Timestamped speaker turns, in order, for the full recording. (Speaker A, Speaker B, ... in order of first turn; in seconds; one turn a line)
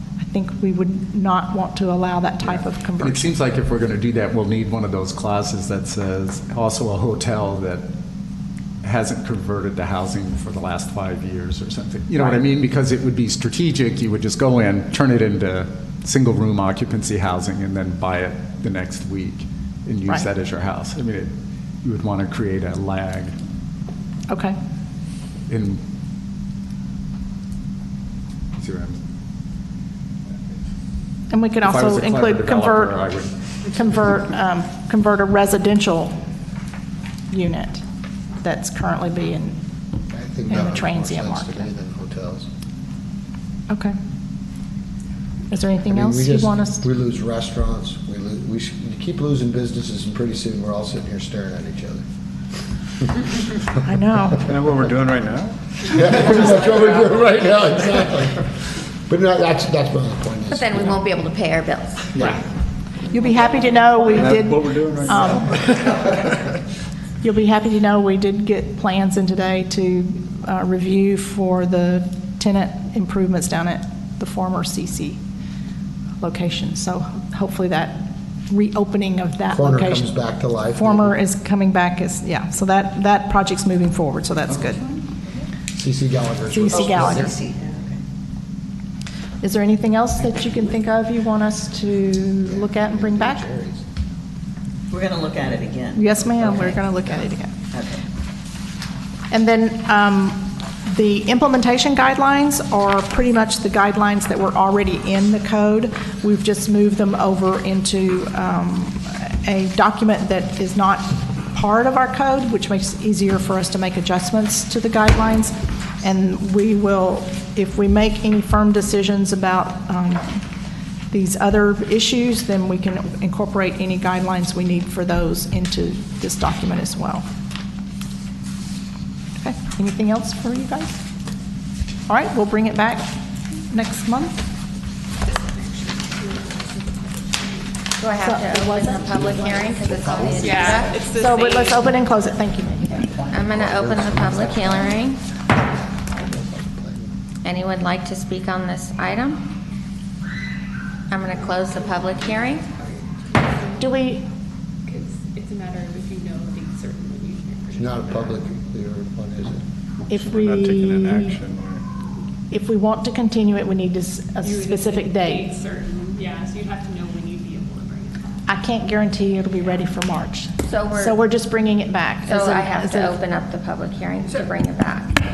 Speaker A: 0.2-3.3
Speaker B: 2.4-7.9
Speaker B: 8.8-21.3
Speaker A: 12.2-12.4
Speaker B: 21.8-23.4
Speaker A: 24.3-24.6
Speaker B: 25.5-25.8
Speaker B: 28.5-29.0
Speaker A: 31.3-33.0
Speaker B: 31.6-33.3
Speaker A: 33.7-36.2
Speaker A: 37.3-37.8
Speaker A: 38.4-39.6
Speaker C: 40.1-42.5
Speaker A: 40.5-41.7
Speaker A: 43.7-44.0
Speaker A: 45.5-46.8
Speaker C: 45.9-52.0
Speaker A: 53.8-54.4
Speaker D: 54.5-57.2
Speaker C: 55.8-58.5
Speaker C: 59.1-61.0
Speaker E: 60.5-62.1
Speaker D: 62.1-62.4
Speaker A: 63.1-66.0
Speaker D: 63.4-66.2
Speaker A: 67.2-75.2
Speaker A: 76.2-80.1
Speaker C: 79.5-81.2
Speaker A: 80.7-84.8
Speaker F: 84.5-85.5
Speaker C: 85.7-87.4
Speaker A: 86.5-87.3
Speaker F: 86.7-88.0
Speaker A: 89.4-93.5
Speaker C: 92.5-93.8
Speaker F: 94.9-98.0
Speaker A: 96.0-97.5
Speaker A: 99.3-120.4
Speaker A: 121.1-127.2
Speaker A: 129.4-131.0
Speaker A: 132.1-133.1
Speaker A: 133.6-134.4
Speaker G: 135.3-137.7
Speaker E: 138.0-140.9
Speaker A: 138.2-139.1
Speaker C: 138.9-141.0
Speaker G: 140.4-141.8
Speaker A: 141.1-143.1
Speaker C: 142.9-145.1
Speaker E: 143.3-145.2
Speaker C: 145.8-147.1
Speaker E: 147.4-149.4
Speaker E: 151.1-152.7
Speaker G: 152.1-154.1
Speaker A: 153.8-154.2
Speaker G: 154.8-158.4
Speaker C: 157.7-159.6
Speaker A: 160.1-161.4
Speaker D: 160.1-162.0
Speaker A: 162.5-165.5
Speaker G: 164.4-168.5
Speaker A: 168.4-173.2
Speaker E: 170.6-171.2
Speaker E: 172.2-175.2